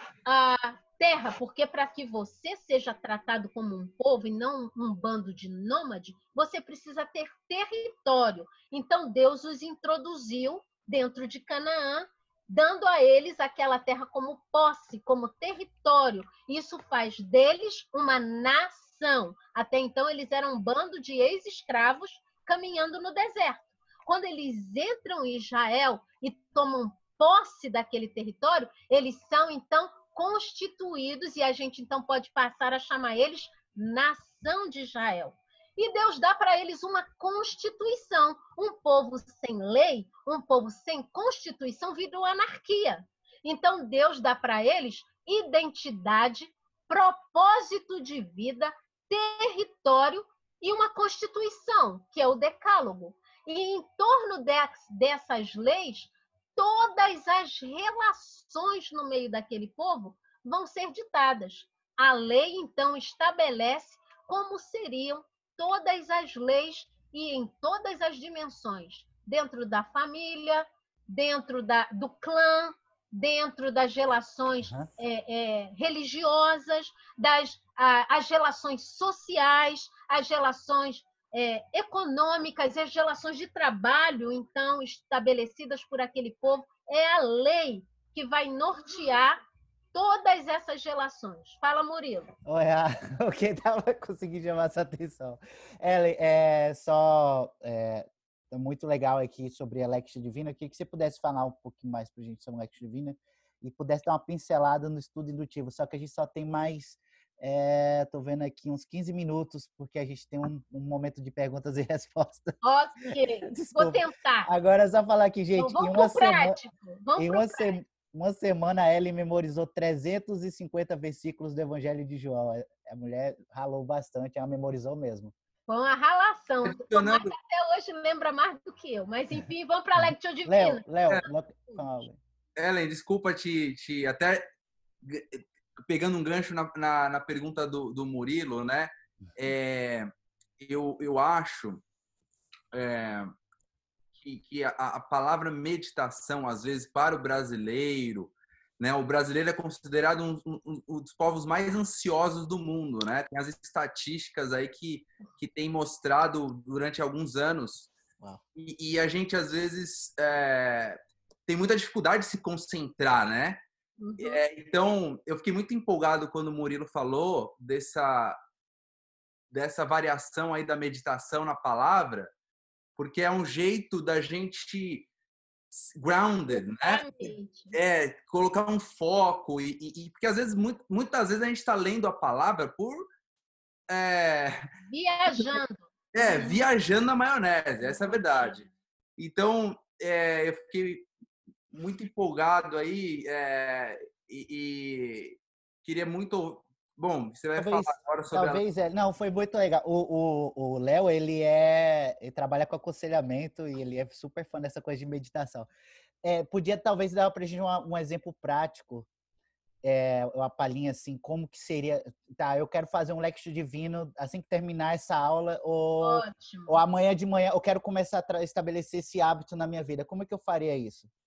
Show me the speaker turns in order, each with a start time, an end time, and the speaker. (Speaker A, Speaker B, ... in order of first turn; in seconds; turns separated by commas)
Speaker A: 0.3-89.4, Speaker A: 89.9-92.3, Speaker B: 92.5-112.6, Speaker A: 112.6-114.5, Speaker B: 113.5-116.6, Speaker A: 115.6-117.7, Speaker B: 117.2-125.3, Speaker A: 125.7-130.8, Speaker C: 126.7-127.3, Speaker B: 130.5-132.2, Speaker C: 132.6-134.4, Speaker C: 135.1-141.8, Speaker C: 142.7-143.3, Speaker C: 144.2-157.9, Speaker C: 158.6-163.6, Speaker A: 164.0-164.4, Speaker C: 164.2-168.4, Speaker C: 169.5-172.3, Speaker C: 173.0-175.1, Speaker C: 175.7-183.1, Speaker A: 176.8-177.8, Speaker C: 183.9-184.7, Speaker A: 184.9-186.6, Speaker C: 186.1-188.7, Speaker A: 187.8-188.6, Speaker C: 189.2-191.1, Speaker C: 191.7-198.6, Speaker B: 197.6-205.7, Speaker B: 206.2-209.1, Speaker B: 209.8-221.1, Speaker A: 216.0-216.8